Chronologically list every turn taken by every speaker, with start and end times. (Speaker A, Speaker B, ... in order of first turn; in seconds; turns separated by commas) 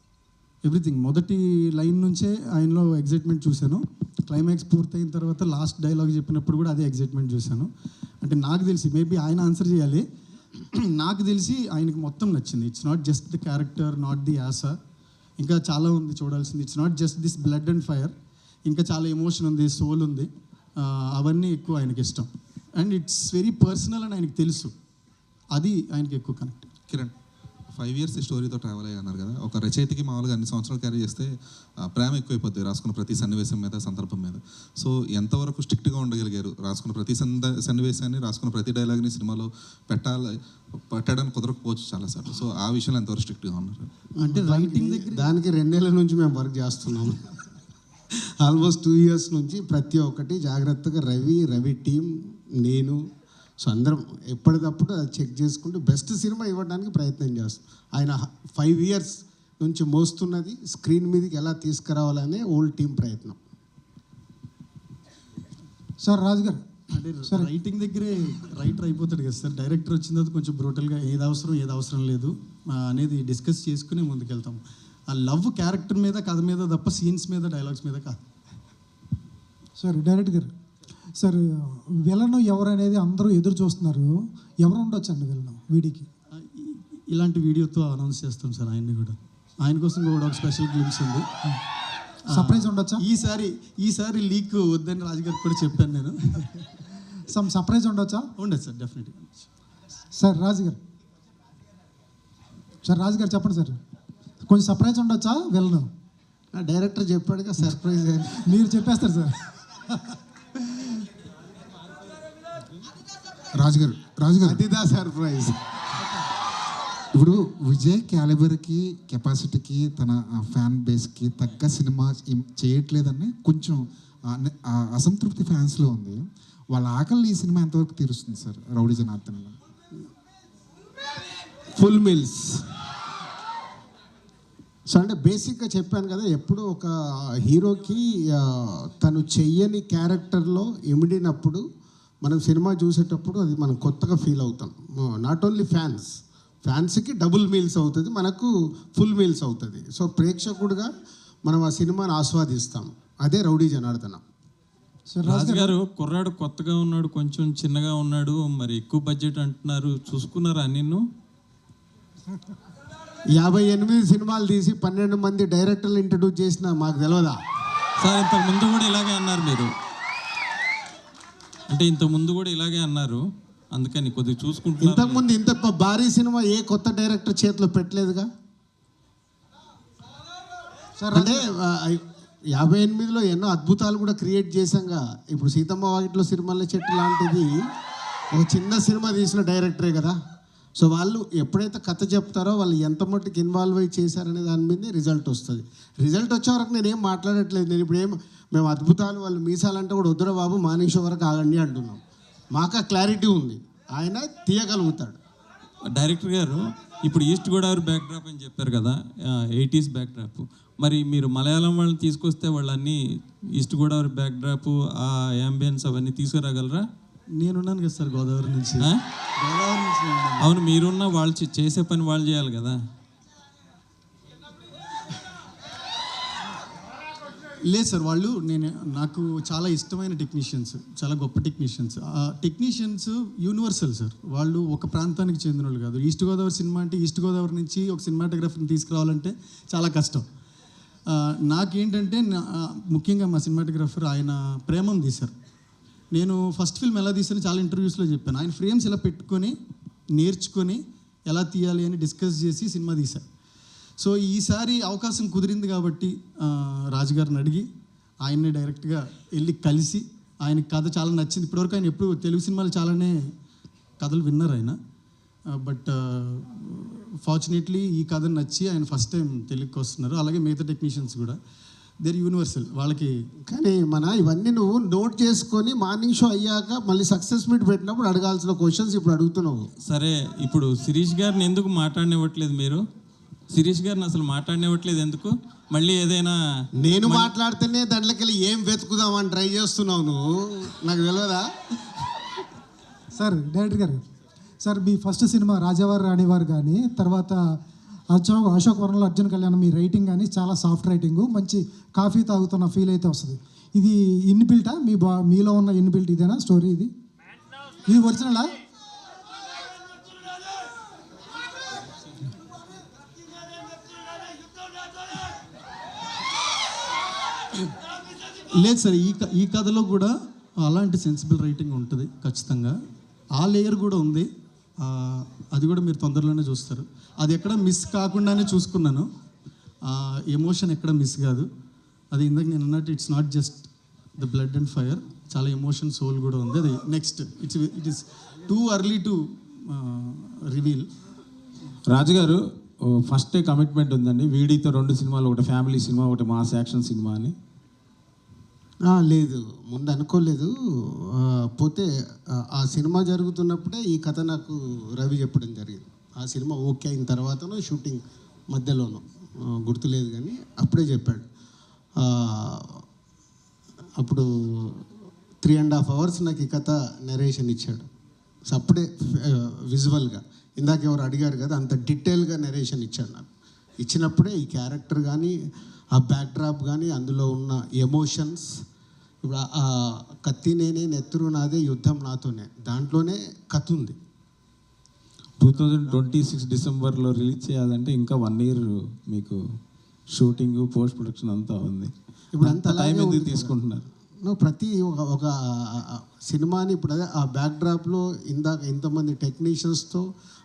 Speaker A: 0.6-7.7, Speaker A: 8.2-10.0, Speaker A: 10.8-14.8, Speaker A: 15.4-18.1, Speaker A: 18.7-24.7, Speaker A: 25.5-26.7, Speaker B: 27.7-40.3, Speaker B: 40.9-43.9, Speaker A: 44.2-45.3, Speaker C: 44.2-47.2, Speaker C: 48.4-52.1, Speaker C: 52.6-53.0, Speaker C: 53.6-63.4, Speaker D: 66.0-66.6, Speaker A: 66.9-78.2, Speaker D: 79.8-80.5, Speaker D: 81.2-84.1, Speaker D: 84.6-86.1, Speaker A: 86.3-91.3, Speaker A: 92.3-96.7, Speaker D: 92.4-93.0, Speaker D: 97.3-98.2, Speaker A: 98.4-99.5, Speaker D: 100.2-100.8, Speaker D: 102.8-103.8, Speaker D: 104.5-105.9, Speaker C: 106.5-108.6, Speaker D: 108.6-109.3, Speaker E: 113.5-114.6, Speaker C: 114.4-115.5, Speaker E: 117.1-126.2, Speaker E: 126.7-129.6, Speaker C: 131.8-132.6, Speaker C: 134.9-141.6, Speaker C: 142.2-146.1, Speaker C: 146.6-150.9, Speaker C: 151.4-154.2, Speaker D: 155.1-155.7, Speaker F: 155.2-161.0, Speaker C: 163.3-167.4, Speaker F: 168.0-169.7, Speaker F: 171.7-173.2, Speaker F: 173.7-175.3, Speaker C: 174.8-178.3, Speaker C: 181.1-187.5, Speaker C: 188.3-190.2, Speaker C: 190.8-202.0, Speaker C: 202.5-205.2, Speaker F: 205.9-213.0, Speaker F: 213.6-216.8, Speaker A: 217.4-218.9, Speaker A: 219.4-220.5, Speaker F: 220.4-222.8, Speaker A: 227.7-240.2, Speaker A: 241.1-245.3, Speaker A: 246.1-249.5, Speaker A: 250.2-253.2, Speaker A: 254.0-257.7, Speaker A: 258.2-263.2, Speaker A: 264.0-264.8, Speaker A: 265.5-271.4, Speaker A: 272.0-273.1, Speaker C: 273.5-279.6, Speaker F: 279.9-282.8, Speaker F: 283.5-286.3, Speaker C: 286.8-291.4, Speaker F: 287.0-287.3, Speaker D: 293.2-294.0, Speaker D: 294.6-297.4, Speaker D: 298.1-306.9, Speaker D: 307.9-308.5, Speaker A: 318.6-322.7, Speaker A: 323.4-324.3, Speaker A: 324.8-329.1, Speaker A: 329.9-331.5, Speaker A: 332.1-340.9, Speaker G: 341.9-347.3, Speaker C: 348.9-350.5, Speaker C: 351.1-351.9, Speaker C: 352.5-359.0, Speaker C: 359.6-361.2, Speaker C: 362.0-362.8, Speaker C: 364.0-364.8, Speaker C: 365.4-367.9, Speaker C: 368.5-373.2, Speaker C: 373.8-375.4, Speaker C: 375.9-378.5, Speaker C: 379.2-383.9, Speaker G: 385.4-389.4, Speaker C: 385.5-386.0, Speaker G: 390.1-393.8, Speaker C: 392.3-393.6, Speaker C: 394.2-400.0